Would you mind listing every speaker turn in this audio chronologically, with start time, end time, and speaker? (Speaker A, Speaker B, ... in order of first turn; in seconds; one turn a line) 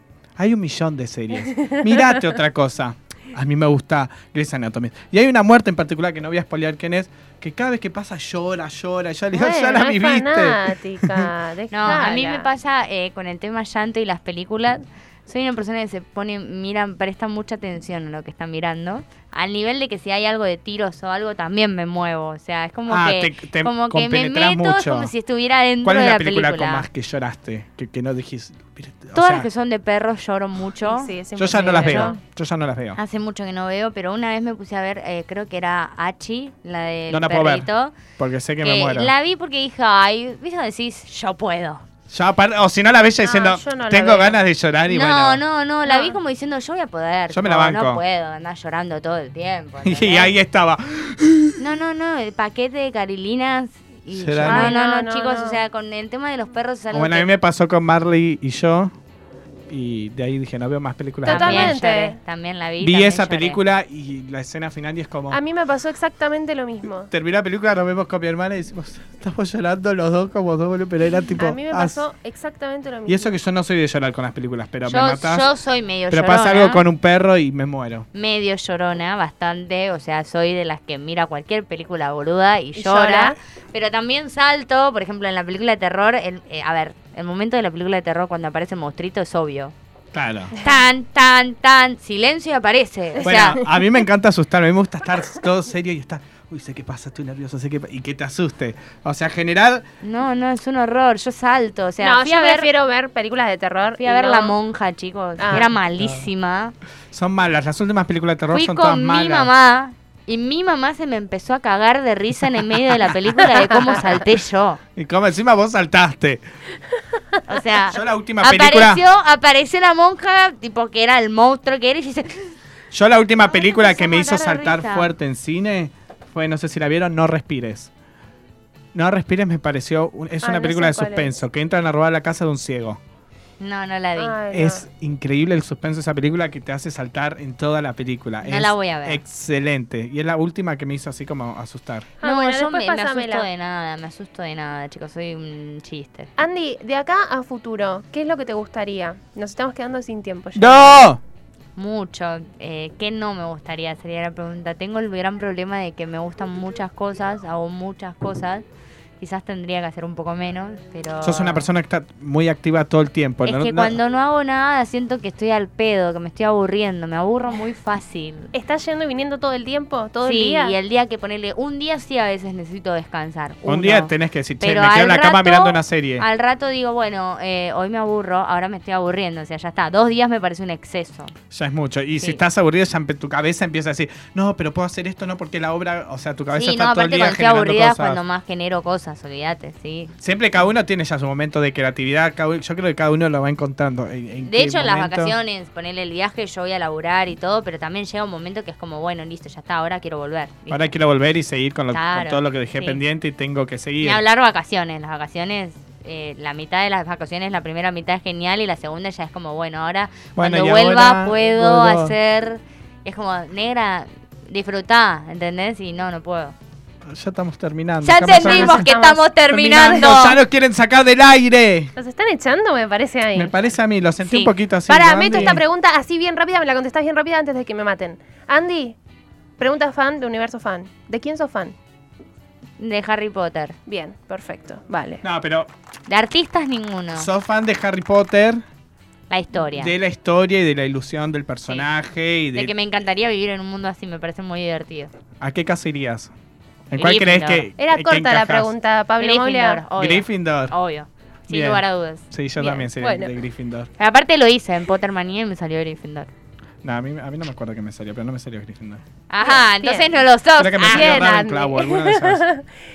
Speaker A: 0.4-11.3
Speaker B: 1.4-2.2
Speaker B: 9.3-12.5
Speaker C: 11.7-26.9
Speaker A: 22.9-25.1
Speaker A: 25.8-29.5
Speaker C: 29.1-32.2
Speaker B: 30.8-32.2
Speaker A: 31.4-33.0
Speaker C: 33.0-38.0
Speaker A: 37.1-37.6
Speaker A: 38.2-39.1
Speaker C: 38.6-41.9
Speaker A: 42.1-45.4
Speaker B: 43.2-44.4
Speaker C: 44.9-50.3
Speaker B: 45.8-46.2
Speaker A: 47.3-48.0
Speaker A: 49.8-51.6
Speaker C: 51.6-57.3
Speaker A: 54.1-54.7
Speaker B: 54.4-55.6
Speaker A: 56.9-58.9
Speaker A: 59.7-61.8
Speaker C: 61.2-63.6
Speaker B: 61.3-62.2
Speaker A: 62.8-65.4
Speaker B: 65.3-67.1
Speaker A: 67.1-72.0
Speaker B: 71.3-73.3
Speaker A: 73.1-75.5
Speaker C: 74.8-76.8
Speaker A: 76.1-78.1
Speaker C: 78.1-89.7
Speaker B: 82.8-83.3
Speaker A: 90.1-90.5
Speaker C: 90.6-93.6
Speaker A: 93.2-99.8
Speaker C: 100.0-102.7
Speaker B: 102.0-104.5
Speaker C: 104.0-106.7
Speaker A: 105.5-106.3
Speaker A: 107.1-109.5
Speaker C: 108.5-114.8
Speaker A: 113.8-114.2
Speaker A: 115.0-116.4
Speaker C: 117.5-122.5
Speaker A: 117.9-119.0
Speaker A: 122.9-127.9
Speaker C: 123.4-125.1
Speaker A: 128.9-133.0
Speaker B: 130.4-131.3
Speaker C: 133.6-134.4
Speaker B: 134.2-134.8
Speaker A: 134.5-142.1
Speaker C: 138.4-139.2
Speaker B: 142.2-143.5
Speaker C: 142.2-146.3
Speaker B: 146.4-151.1
Speaker A: 150.6-151.2
Speaker C: 151.8-158.6
Speaker C: 159.2-161.7
Speaker A: 161.2-164.0
Speaker C: 163.4-168.5
Speaker B: 168.5-170.7
Speaker C: 170.2-181.3
Speaker A: 173.7-176.2
Speaker A: 181.5-188.2
Speaker C: 186.5-190.1
Speaker A: 190.2-195.3
Speaker C: 194.4-200.8
Speaker A: 200.7-204.2
Speaker C: 201.9-203.0
Speaker C: 204.0-216.5
Speaker A: 210.3-212.1
Speaker A: 217.0-218.9
Speaker C: 218.0-220.4
Speaker B: 218.3-220.0
Speaker A: 219.5-221.9
Speaker B: 221.9-223.6
Speaker A: 223.3-225.6
Speaker B: 224.3-228.9
Speaker B: 229.6-231.7
Speaker C: 232.8-233.7
Speaker B: 233.9-235.2
Speaker A: 235.2-235.7
Speaker C: 236.1-237.3
Speaker A: 237.1-238.6
Speaker C: 239.3-239.9
Speaker A: 239.7-242.7
Speaker C: 242.5-245.1
Speaker A: 245.4-246.3
Speaker A: 246.9-248.7
Speaker C: 246.9-247.7
Speaker B: 247.8-249.8
Speaker C: 249.2-252.8
Speaker A: 250.0-250.7
Speaker A: 251.5-253.9
Speaker B: 252.8-253.3
Speaker C: 254.0-256.3
Speaker A: 256.8-259.0
Speaker C: 259.3-261.4
Speaker B: 259.4-260.1
Speaker A: 260.6-262.4
Speaker B: 260.8-262.6